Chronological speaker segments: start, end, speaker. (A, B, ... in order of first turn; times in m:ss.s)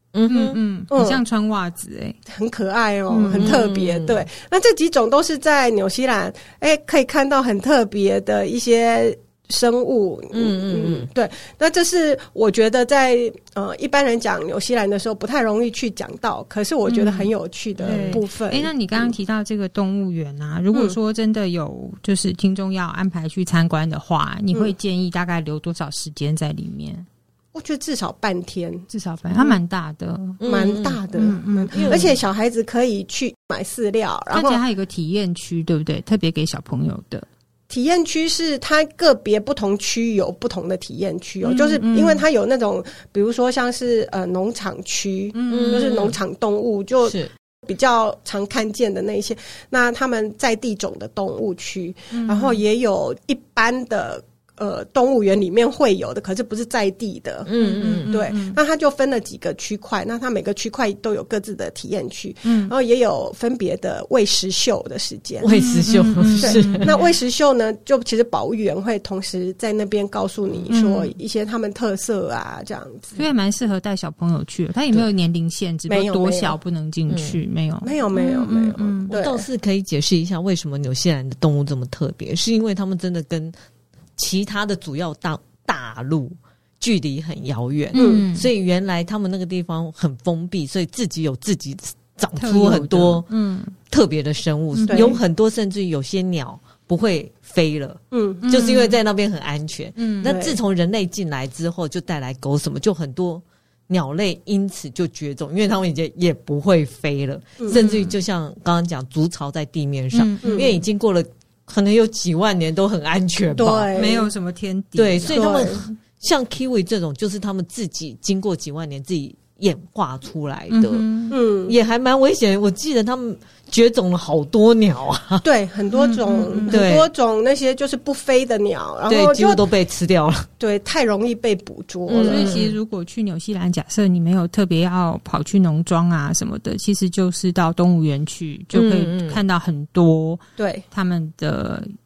0:00.1-0:00.6 A
0:00.3-0:02.2 B
0:00.9-0:01.2 C
0:02.3-0:19.0 C
0:03.1-0:03.6 B
0:03.3-0:04.2 A
0:10.3-0:11.1 A
0:16.8-0:17.3 B
0:17.8-0:27.1 B
0:17.8-0:18.2 A
0:20.7-0:21.0 C
0:27.5-0:29.6 C
0:28.9-0:30.4 B
0:30.4-0:31.0 A
0:30.4-0:34.6 C
0:31.1-0:32.1 B
0:31.7-0:32.1 A
0:34.3-0:37.2 B
0:37.7-1:05.5 C
0:41.4-0:42.2 B
0:45.3-0:45.9 B
0:45.5-0:46.2 A
0:47.0-0:47.3 A
0:52.1-0:52.6 B
0:57.4-0:58.1 A
0:57.6-0:58.6 B
1:02.4-1:02.7 B
1:05.4-1:06.9 A
1:05.5-1:07.1 B
1:06.4-1:13.2 C
1:10.7-1:11.1 B
1:13.2-1:19.1 B
1:15.9-1:16.6 C
1:17.1-1:17.4 A
1:17.8-1:19.4 C
1:19.1-1:23.5 A
1:24.2-1:33.3 A
1:27.9-1:28.5 B
1:27.9-1:28.2 C
1:32.4-1:33.7 B
1:33.9-1:54.0 A
1:34.7-1:35.2 B
1:34.9-1:35.2 C
1:38.1-1:38.4 C
1:38.4-1:39.0 B
1:40.0-1:40.4 B
1:40.2-1:40.6 C
1:47.6-1:47.8 C
1:47.7-1:48.0 B
1:50.1-1:50.8 B
1:50.4-1:50.7 C
1:53.6-1:54.3 C
1:53.9-1:56.0 B
1:55.0-2:01.1 A
1:55.3-1:55.8 C
2:00.7-2:01.4 B
2:01.3-2:01.8 C
2:01.6-2:05.4 A
2:05.4-2:09.6 C
2:05.9-2:06.8 B
2:06.7-2:07.1 A
2:09.1-2:10.5 A
2:10.6-2:12.6 C
2:12.1-2:12.8 A
2:12.2-2:21.9 B
2:18.7-2:19.4 A
2:20.6-2:20.8 C